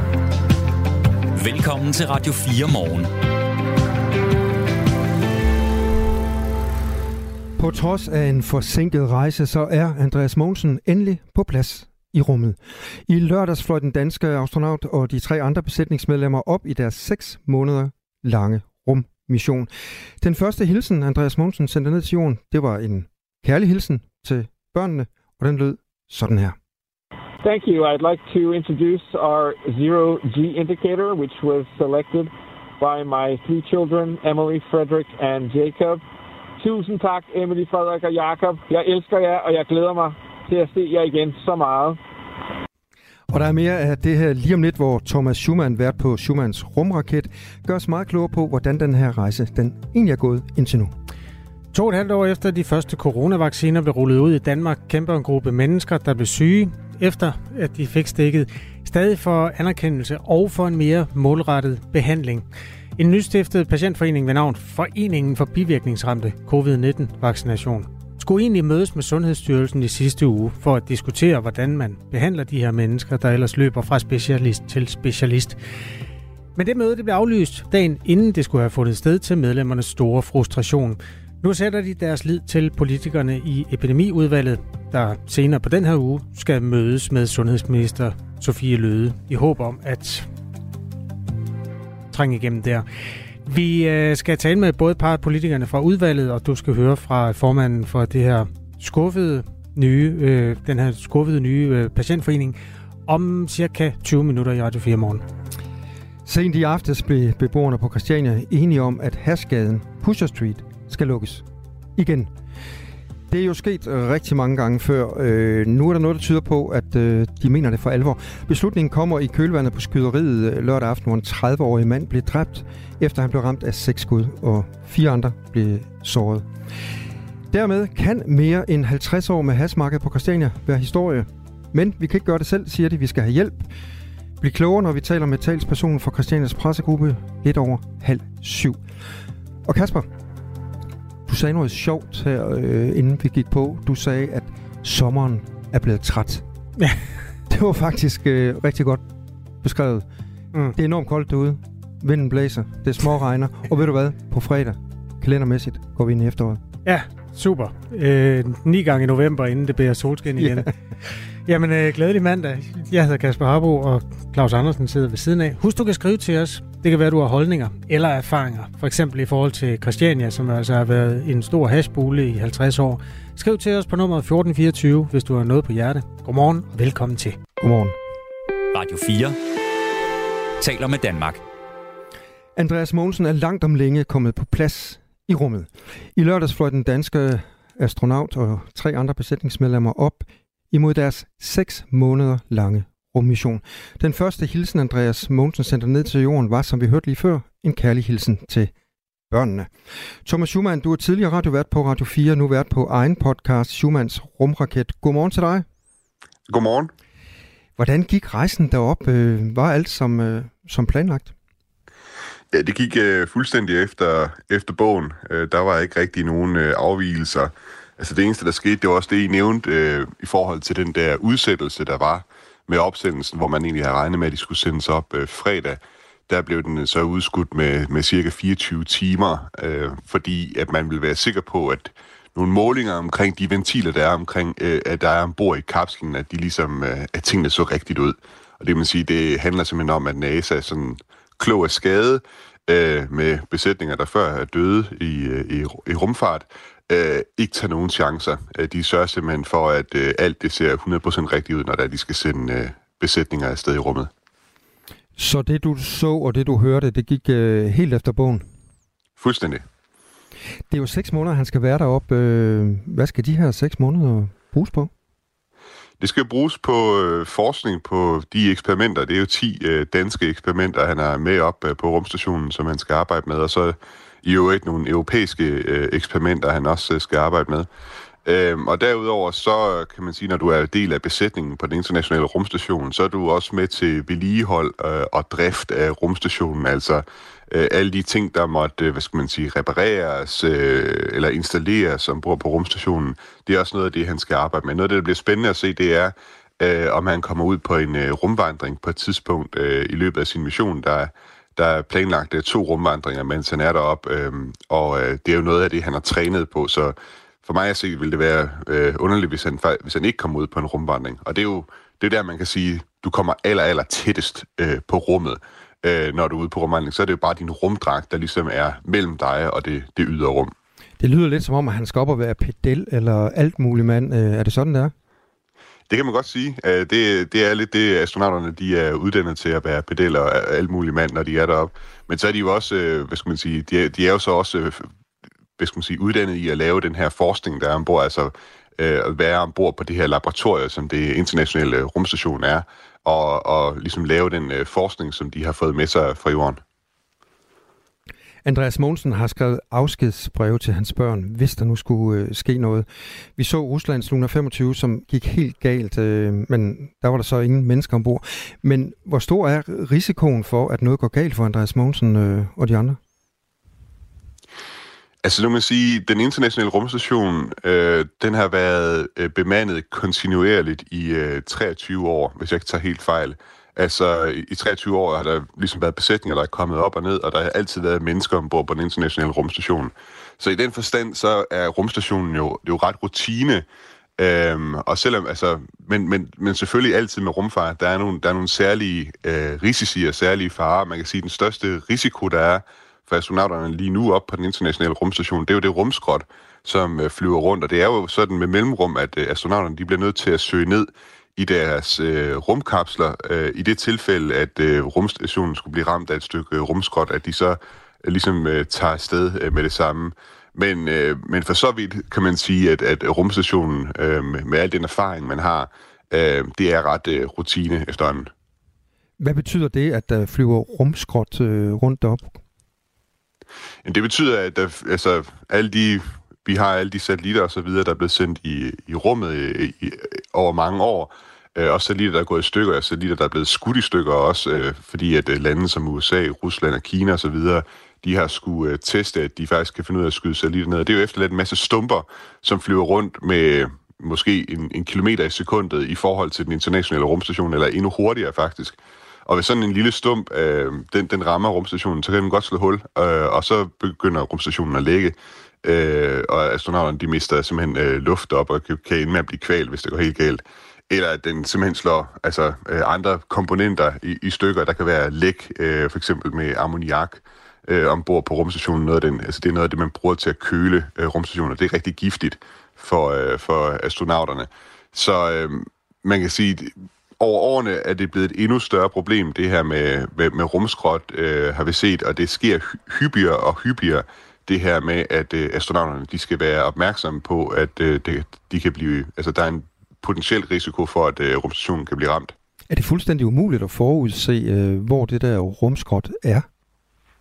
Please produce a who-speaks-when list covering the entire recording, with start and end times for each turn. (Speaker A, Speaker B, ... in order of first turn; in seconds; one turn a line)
Speaker A: 1.3-3.1
Speaker B: 7.6-26.6
Speaker C: 27.4-36.0
Speaker C: 36.6-42.0
Speaker B: 43.3-50.9
Speaker D: 51.7-62.4
Speaker D: 63.0-75.6
Speaker D: 76.5-90.3
Speaker D: 92.1-92.8
Speaker D: 93.4-105.2
Speaker B: 106.2-112.3
Speaker B: 113.3-126.5
Speaker B: 127.5-133.7
Speaker B: 134.4-138.8
Speaker B: 139.6-140.1
Speaker B: 141.3-146.4
Speaker B: 147.5-149.0
Speaker B: 149.6-150.1
Speaker B: 150.7-156.6
Speaker D: 156.8-160.7
Speaker D: 161.4-177.4
Speaker B: 177.6-177.9
Speaker A: 178.7-179.4
Speaker A: 180.6-181.4
Speaker B: 182.6-198.7
Speaker B: 199.3-199.7
Speaker B: 200.2-205.7
Speaker E: 206.5-206.9
Speaker B: 207.8-211.3
Speaker E: 212.5-254.1
Speaker B: 255.2-258.5
Speaker E: 259.2-259.6
Speaker B: 260.7-264.9
Speaker E: 266.0-277.7
Speaker E: 278.2-320.5
Speaker B: 321.0-324.9
Speaker E: 325.9-334.9
Speaker E: 335.6-346.6
Speaker B: 348.4-363.0
Speaker E: 365.2-383.6
Speaker E: 384.2-418.3
Speaker B: 419.2-422.4
Speaker E: 423.8-492.3
Speaker B: 492.7-496.5